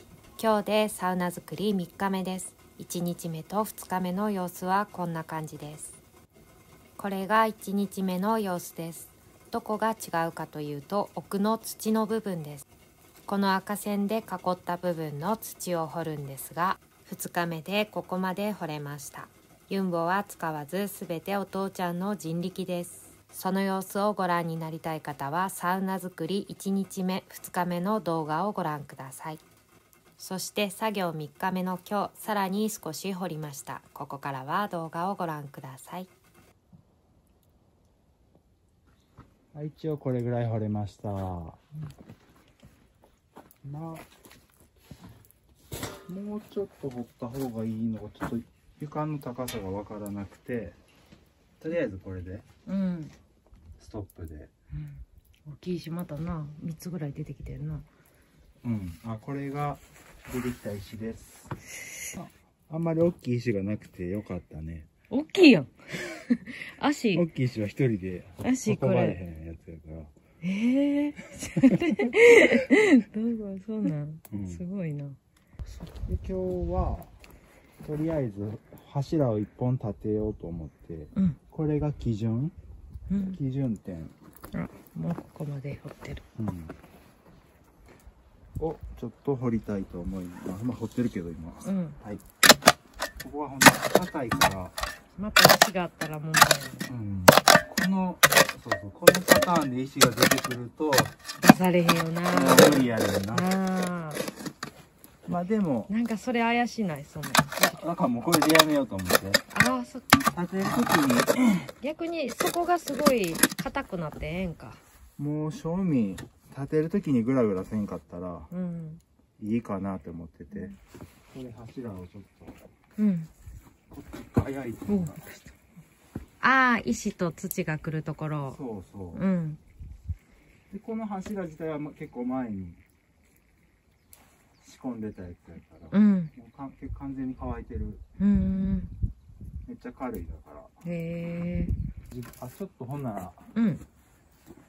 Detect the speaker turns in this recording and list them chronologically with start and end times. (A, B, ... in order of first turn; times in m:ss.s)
0:00.4-0:06.0 A
0:07.0-0:12.6 A
0:13.2-0:29.4 A
0:30.2-0:36.1 A
0:39.5-0:41.6 B
0:43.6-0:44.1 B
0:46.1-0:50.8 B
0:51.6-0:52.4 B
0:52.6-0:53.1 C
0:53.8-0:54.5 B
0:54.7-0:57.8 C
0:58.6-1:01.5 B
1:02.1-1:04.9 B
1:05.1-1:07.3 C
1:07.1-1:10.2 B
1:08.4-1:09.2 C
1:10.4-1:15.2 C
1:11.6-1:12.1 B
1:14.3-1:14.6 B
1:16.0-1:17.1 B
1:17.8-1:22.5 B
1:23.1-1:23.4 C
1:23.3-1:24.1 B
1:24.5-1:26.2 C
1:26.4-1:26.8 B
1:28.6-1:32.2 B
1:31.6-1:32.0 C
1:33.2-1:34.8 B
1:35.2-1:36.9 C
1:36.9-1:41.2 B
1:41.4-1:44.2 C
1:42.3-1:43.5 B
1:45.2-1:45.9 B
1:45.9-1:47.8 C
1:47.6-1:49.4 B
1:49.5-1:50.2 C
1:50.2-1:51.7 B
1:51.8-1:54.8 C
1:55.2-1:58.5 B
1:58.5-1:59.0 C
1:59.4-2:00.7 B
2:00.5-2:00.8 C
2:01.3-2:02.6 B
2:03.0-2:03.3 C
2:03.9-2:05.2 B
2:04.9-2:05.5 C
2:06.4-2:08.6 C
2:08.4-2:09.2 B
2:09.1-2:09.6 C
2:10.7-2:12.8 B
2:14.6-2:18.0 B
2:15.9-2:16.3 C
2:18.2-2:18.9 C
2:19.6-2:20.8 B
2:20.8-2:21.7 C
2:22.1-2:23.5 B
2:23.5-2:23.8 C